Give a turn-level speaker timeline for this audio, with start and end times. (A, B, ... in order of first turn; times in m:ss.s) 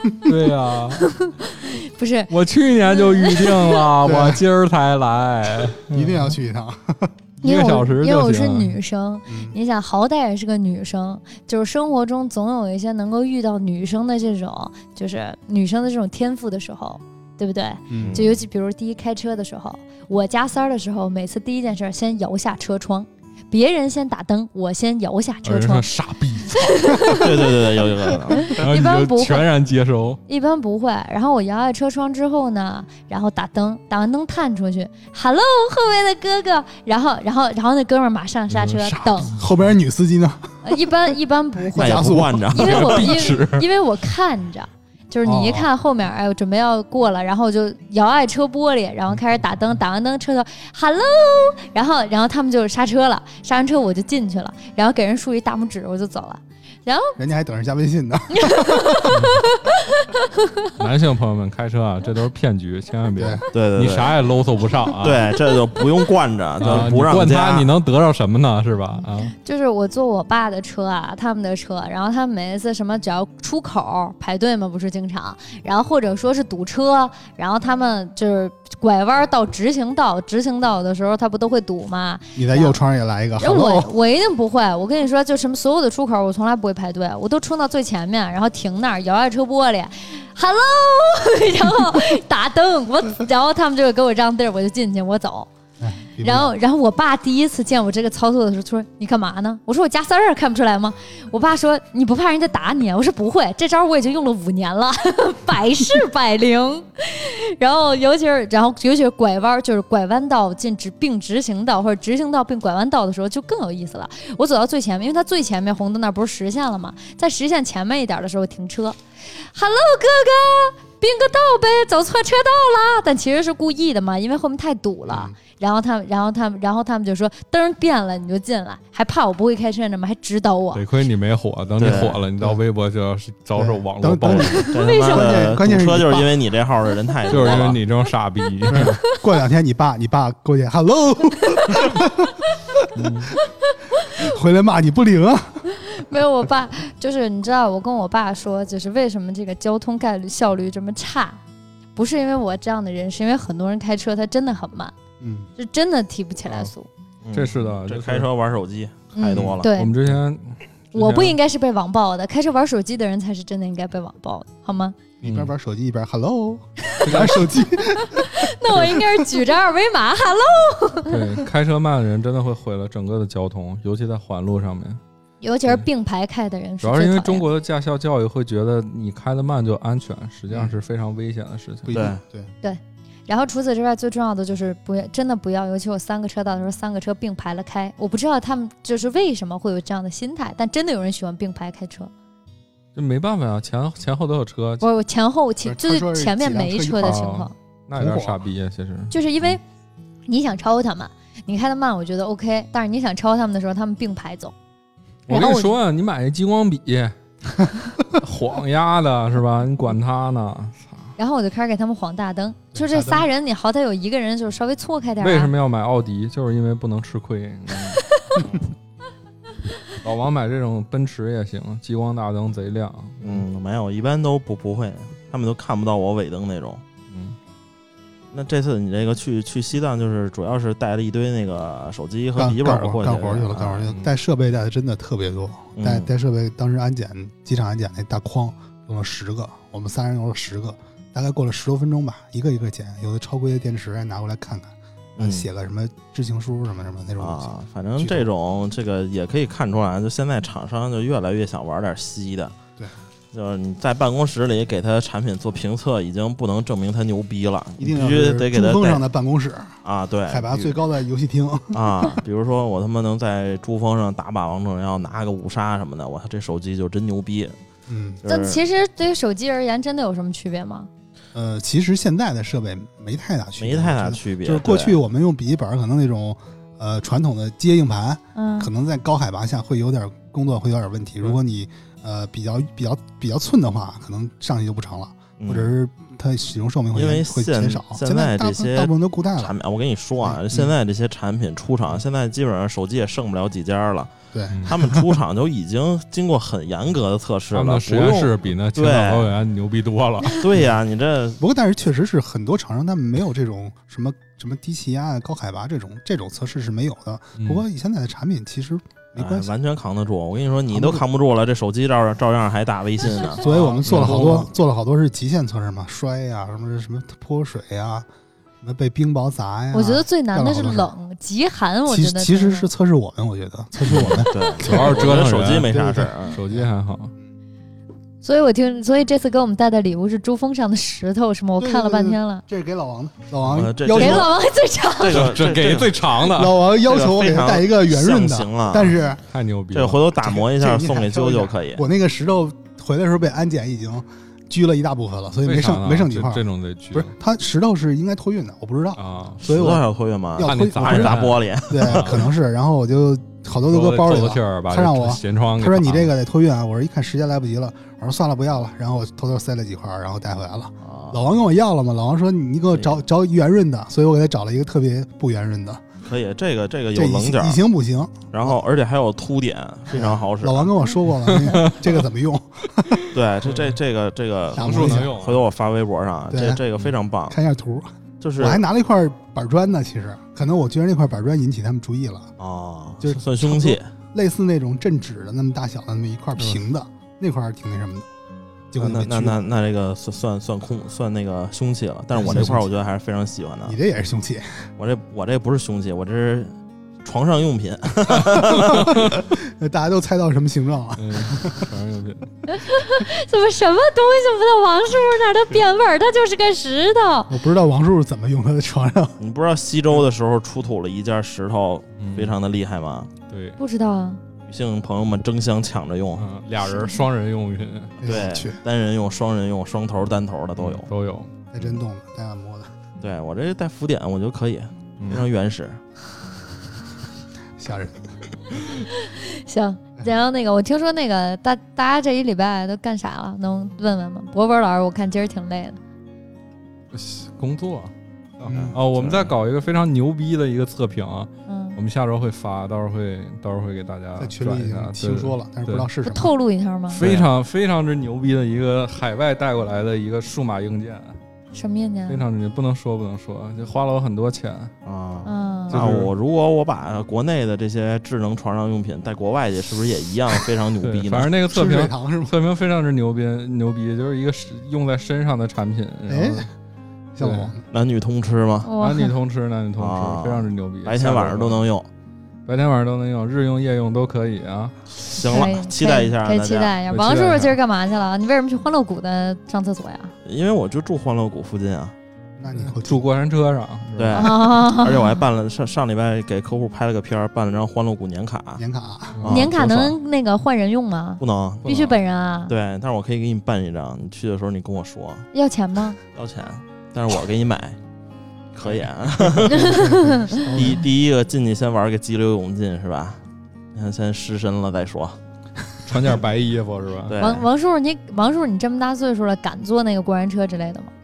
0:00.2-0:01.0 A
0:01.0-0:02.3 B
0:02.3-0:06.3 A
0:02.9-0:03.9 B
0:04.0-0:04.4 C
0:05.9-0:07.1 C
0:07.4-0:08.8 A
0:07.4-0:25.9 B
0:09.3-0:09.6 C
0:17.9-0:18.2 C
0:18.0-0:18.4 D
0:25.4-0:27.2 A
0:26.5-0:27.4 B
0:27.1-0:28.5 D
0:28.4-0:29.5 B
0:28.5-0:30.2 A
0:30.3-0:39.3 B
0:38.5-0:39.5 A
0:39.4-0:40.7 C
0:40.6-0:57.2 B
0:41.7-0:42.5 C
0:41.7-0:43.2 D
0:42.6-0:43.6 A
0:45.2-0:45.7 C
0:57.2-0:59.3 C
0:58.3-1:00.7 B
0:59.1-0:59.4 A
1:00.8-1:05.2 A
1:03.1-1:03.4 C
1:03.5-1:04.2 D
1:05.0-1:07.7 D
1:06.6-1:09.3 A
1:09.2-1:22.8 B
1:22.3-1:23.9 C
1:23.4-1:35.5 B
1:35.8-1:36.5 C
1:36.2-2:10.8 B
2:05.1-2:05.4 C
2:10.7-2:14.7 A
2:11.8-2:12.2 D
2:11.8-2:12.6 C
2:13.5-2:16.3 C
2:14.2-2:17.8 D
2:14.6-2:15.5 B
2:17.3-2:19.0 A
2:18.7-2:22.9 C
2:22.9-2:23.3 A
2:23.6-2:24.1 B
2:24.2-2:25.7 C
2:25.7-2:31.4 B
2:32.0-2:34.9 B
2:35.2-2:35.5 C
2:35.6-2:36.9 B
2:37.2-2:39.7 D
2:37.3-2:38.3 A
2:39.1-2:40.0 B
2:39.7-2:41.4 A
2:40.9-2:45.0 B
2:45.2-2:45.5 A
2:45.2-2:49.0 C
2:47.0-2:47.7 A
2:48.0-2:51.2 B
2:51.1-2:55.0 A
2:55.4-2:57.4 B
2:56.8-3:02.0 A
3:00.5-3:00.8 C
3:01.8-3:02.5 C
3:01.9-3:02.2 D
3:02.6-3:12.1 B
3:12.9-3:14.8 A
3:14.8-3:17.5 B
3:15.6-3:17.3 C
3:17.0-3:19.1 A
3:17.9-3:18.4 C
3:19.1-3:19.6 B
3:20.3-3:24.5 B
3:25.3-3:31.1 A
3:25.3-3:25.7 B
3:31.2-3:35.5 B
3:32.7-3:33.3 C
3:35.2-3:38.0 A
3:40.0-3:43.4 A
3:43.2-3:46.8 D
3:47.1-3:47.4 A
3:48.3-3:53.9 D
3:52.3-4:08.3 C
3:55.8-3:56.1 D
4:05.2-4:05.4 D
4:07.2-4:12.6 D
4:13.3-4:19.0 D
4:17.8-4:22.2 C
4:19.8-4:20.8 D
4:21.7-4:27.6 D
4:27.9-4:28.2 C
4:28.2-4:28.6 D
4:28.3-4:30.9 B
4:31.3-4:49.5 C
4:33.6-4:35.0 D
4:38.3-4:38.7 B
4:45.4-4:45.7 D
4:46.9-4:54.1 D
4:50.3-4:50.7 C
4:54.3-4:55.1 C
4:54.5-4:54.7 A
4:54.6-4:59.4 D
4:57.5-5:00.4 A
5:00.3-5:01.4 D
5:01.4-5:09.5 C
5:07.4-5:07.6 A
5:09.2-5:14.5 D
5:10.7-5:11.0 C
5:13.3-5:18.1 C
5:13.4-5:14.5 A
5:18.6-5:20.9 C
5:19.7-5:22.7 B
5:21.9-5:24.9 C
5:23.8-5:26.4 D
5:24.3-5:24.6 B
5:24.6-5:25.8 A
5:25.6-5:27.3 C
5:26.3-5:27.1 A
5:28.2-5:32.4 B
5:31.6-5:34.3 C
5:33.4-5:34.4 D
5:33.9-5:35.3 B
5:35.0-5:39.0 D
5:35.1-5:36.6 A
5:36.2-5:39.2 C
5:39.3-5:40.0 A
5:39.7-5:41.8 D
5:40.2-5:49.8 C
5:45.4-5:47.1 A
5:49.0-5:49.4 A
5:49.4-5:52.3 D
5:50.4-6:05.8 C
5:50.4-5:52.2 A
5:53.7-5:56.1 A
6:00.8-6:01.2 D
6:06.0-6:07.6 D
6:06.9-6:08.6 C
6:08.3-6:10.8 D
6:09.9-6:13.1 C
6:11.3-6:12.0 A
6:13.1-6:17.4 D
6:13.4-6:13.7 A
6:14.5-6:15.1 C
6:14.5-6:15.4 A
6:16.3-6:16.6 C
6:17.3-6:22.3 C
6:18.2-6:18.6 D
6:22.4-6:23.9 D
6:23.0-6:28.1 C
6:28.7-6:29.4 C
6:28.8-6:33.8 D
6:32.1-6:32.7 C
6:32.3-6:32.6 A
6:33.6-6:34.6 C
6:34.8-6:36.5 D
6:37.0-6:39.2 D
6:38.4-6:41.7 C
6:38.6-6:39.1 A
6:41.0-6:42.3 A
6:42.5-6:47.3 B
6:47.3-6:49.2 C
6:49.2-6:53.1 D
6:52.0-6:52.3 A
6:53.3-6:53.6 A
6:53.6-6:54.2 B
6:54.4-6:56.3 D
6:56.2-6:58.1 A
6:56.6-6:57.0 B
6:58.0-6:58.6 C
6:58.0-7:00.9 D
7:00.6-7:01.3 A
7:01.5-7:02.7 C
7:03.0-7:05.8 D
7:05.0-7:05.2 A
7:07.6-7:08.6 C
7:08.9-7:15.8 B
7:16.9-7:25.9 A
7:18.4-7:18.8 C
7:18.5-7:19.3 D
7:21.5-7:21.8 B
7:24.2-7:26.3 C
7:26.0-7:27.0 B
7:26.9-7:31.2 A
7:27.0-7:27.3 D
7:31.5-7:32.3 B
7:32.1-7:34.7 A
7:34.8-7:41.3 D
7:35.2-7:35.8 B
7:35.7-7:36.1 A
7:40.8-7:46.5 A
7:41.5-7:42.3 C
7:46.1-7:46.5 C
7:47.1-7:47.6 C
7:47.2-7:47.5 A
7:47.7-7:48.7 D
7:48.6-7:49.1 B
7:48.8-7:51.6 A
7:49.8-7:51.9 D
7:52.4-7:54.8 A
7:55.0-7:56.8 D
7:55.1-8:00.1 B
7:56.9-7:57.6 A
8:00.2-8:01.9 D
8:02.4-8:03.1 C
8:02.5-8:04.4 A
8:04.0-8:08.6 D
8:04.1-8:05.2 B
8:08.6-8:09.2 C
8:09.2-8:09.9 A
8:09.2-8:09.6 D
8:09.3-8:12.5 B
8:11.2-8:11.9 D
8:12.5-8:15.3 D
8:15.3-8:16.0 B
8:16.1-8:17.8 D
8:18.5-8:23.2 D
8:19.4-8:20.8 C
8:19.5-8:20.4 B
8:23.7-8:25.2 D
8:25.9-8:27.2 A
8:27.0-8:27.5 D
8:27.2-8:30.9 B